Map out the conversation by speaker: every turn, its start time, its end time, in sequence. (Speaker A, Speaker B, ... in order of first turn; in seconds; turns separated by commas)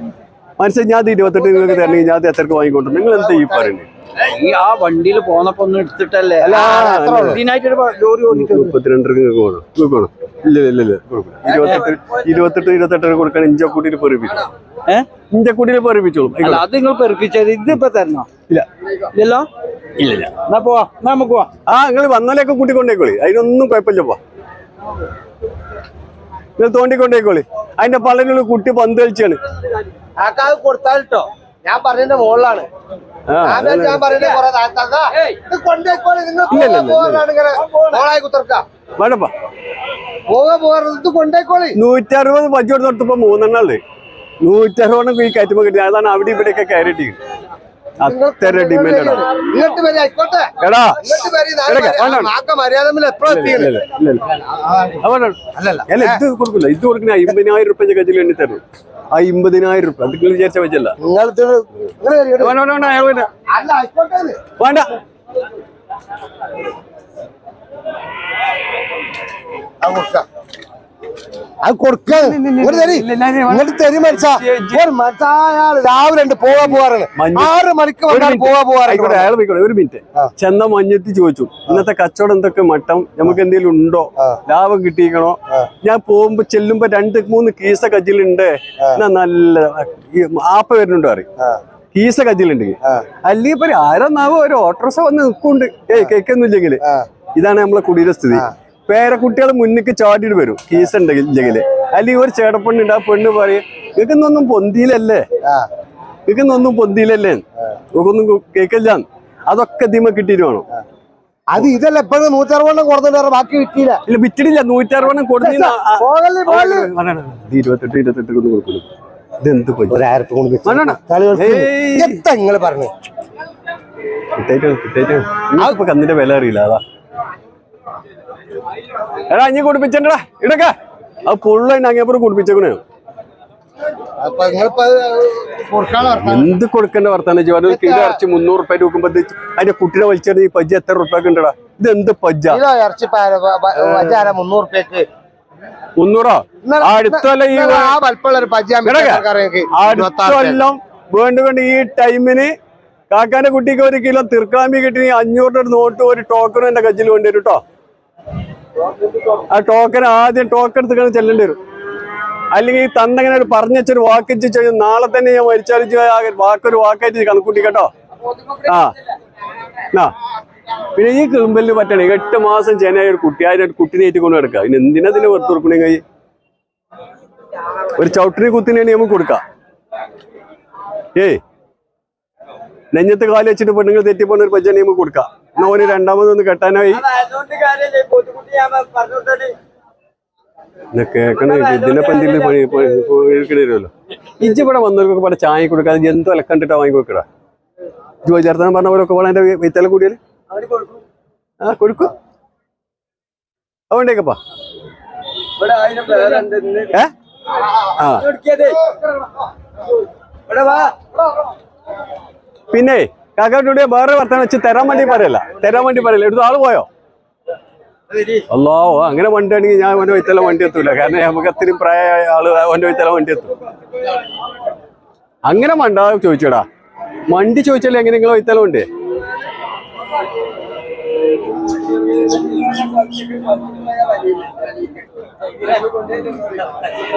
Speaker A: 0.6-3.9, Speaker B: 3.2-3.7, Speaker C: 4.2-8.7, Speaker A: 6.4-7.4, Speaker B: 6.5-7.4, Speaker A: 8.3-14.4, Speaker C: 11.5-11.9, Speaker A: 15.3-16.6, Speaker C: 16.4-18.3, Speaker C: 19.1-19.5, Speaker C: 20.0-21.5, Speaker A: 21.7-24.2, Speaker A: 26.6-29.4, Speaker B: 30.2-32.6, Speaker A: 33.3-34.1, Speaker B: 33.4-38.6, Speaker A: 36.5-37.2, Speaker C: 37.7-38.0, Speaker A: 39.0-39.3, Speaker B: 40.3-41.8, Speaker A: 41.8-43.8, Speaker A: 44.4-47.2, Speaker A: 48.0-49.3, Speaker B: 48.0-56.2, Speaker A: 50.6-51.0, Speaker A: 51.6-52.3, Speaker A: 53.3-54.3, Speaker A: 55.0-61.0, Speaker B: 61.0-62.5, Speaker A: 62.4-63.3, Speaker B: 63.5-64.4, Speaker A: 64.6-64.9, Speaker B: 69.8-70.2, Speaker B: 71.6-79.3, Speaker A: 72.1-74.8, Speaker A: 76.5-77.5, Speaker A: 78.1-91.2, Speaker A: 91.9-96.8, Speaker A: 97.3-105.2, Speaker A: 106.2-110.7, Speaker B: 111.5-114.0, Speaker A: 114.1-118.8, Speaker B: 115.4-116.9, Speaker A: 119.4-120.0, Speaker B: 119.9-122.9, Speaker A: 120.6-122.2, Speaker A: 124.3-126.8, Speaker A: 129.3-130.7, Speaker A: 131.2-132.8, Speaker B: 134.2-136.6, Speaker A: 136.0-142.6, Speaker B: 137.7-138.2, Speaker B: 142.5-145.1, Speaker A: 143.8-144.2, Speaker A: 146.0-148.0, Speaker B: 146.6-150.7, Speaker A: 148.8-152.5, Speaker A: 153.1-157.6, Speaker A: 159.5-161.6, Speaker A: 162.5-167.9, Speaker C: 168.3-168.6, Speaker A: 168.6-168.9, Speaker A: 170.9-176.0, Speaker A: 177.9-179.4, Speaker A: 182.9-187.0, Speaker C: 187.0-189.6, Speaker A: 190.9-197.2, Speaker C: 191.3-193.0, Speaker A: 198.2-200.2, Speaker C: 200.5-200.9, Speaker A: 201.6-202.1, Speaker A: 203.9-204.4, Speaker C: 205.6-206.9, Speaker C: 207.7-209.2, Speaker A: 207.9-208.3, Speaker C: 210.5-211.0, Speaker A: 212.7-216.9, Speaker A: 218.5-223.6, Speaker A: 225.4-226.6, Speaker A: 227.3-228.9, Speaker C: 235.7-236.6